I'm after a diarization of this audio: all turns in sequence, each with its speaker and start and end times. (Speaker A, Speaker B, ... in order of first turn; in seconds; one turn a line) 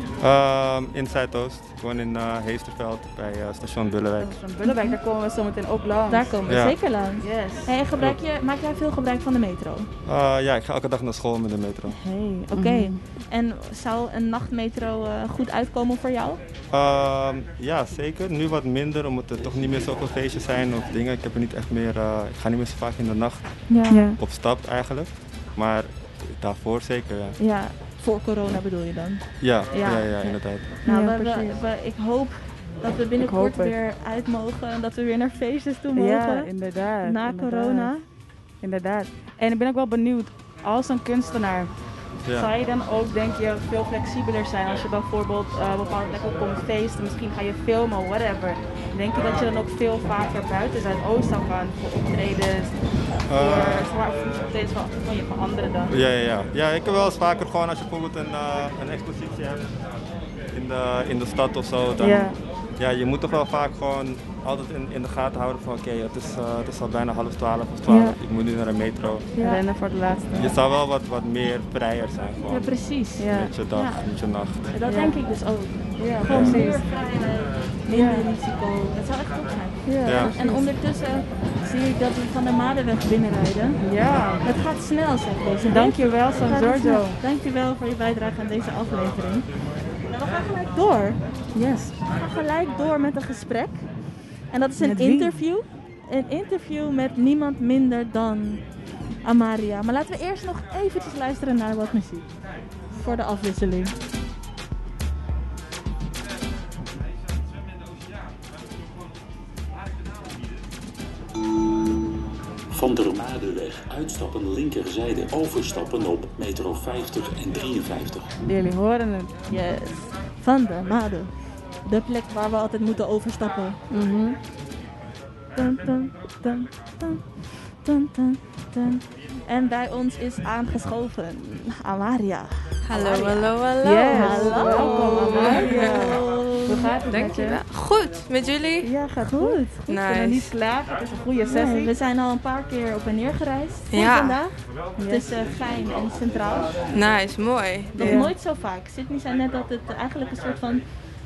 Speaker A: 0.2-4.4
Speaker B: 4.2-6.4
Speaker C: 4.6-5.0
Speaker C: 6.1-9.9
Speaker A: 6.5-6.8
Speaker B: 7.2-7.7
Speaker A: 10.1-12.0
Speaker C: 11.9-16.4
Speaker B: 12.5-13.0
Speaker A: 16.7-27.4
Speaker D: 19.3-21.4
Speaker B: 23.7-24.2
Speaker C: 23.7-24.1
Speaker B: 27.4-27.8
Speaker C: 28.0-29.2
Speaker A: 29.4-30.8
Speaker B: 29.7-31.6
Speaker C: 30.9-36.5
Speaker B: 33.2-33.8
Speaker B: 36.0-37.9
Speaker C: 37.0-38.0
Speaker B: 38.6-55.9
Speaker A: 42.3-42.5
Speaker A: 53.3-53.9
Speaker A: 55.9-59.7
Speaker A: 60.5-69.3
Speaker B: 62.0-62.4
Speaker B: 67.9-68.2
Speaker C: 69.3-69.6
Speaker B: 69.3-70.6
Speaker A: 70.4-74.7
Speaker C: 72.4-83.8
Speaker B: 73.2-73.5
Speaker B: 74.9-75.2
Speaker B: 76.0-76.9
Speaker A: 76.2-76.6
Speaker B: 77.9-78.3
Speaker B: 79.8-80.7
Speaker A: 80.0-80.3
Speaker B: 83.8-84.5
Speaker C: 84.4-89.5
Speaker B: 85.7-87.2
Speaker C: 90.0-91.2
Speaker B: 91.5-92.0
Speaker C: 92.0-98.6
Speaker B: 94.8-95.4
Speaker C: 99.2-102.3
Speaker C: 102.9-103.9
Speaker D: 112.7-118.4
Speaker B: 118.5-119.5
Speaker C: 119.5-123.8
Speaker B: 123.9-124.4
Speaker C: 125.5-133.5
Speaker E: 132.9-136.3
Speaker B: 133.8-137.6
Speaker C: 134.1-137.3
Speaker E: 137.1-138.9
Speaker B: 138.8-141.9
Speaker C: 139.2-139.8
Speaker E: 139.9-140.5
Speaker C: 141.5-146.8
Speaker E: 143.9-144.4
Speaker B: 145.0-145.3
Speaker D: 145.3-147.6
Speaker E: 146.9-148.3
Speaker C: 147.9-150.9
Speaker B: 148.0-148.3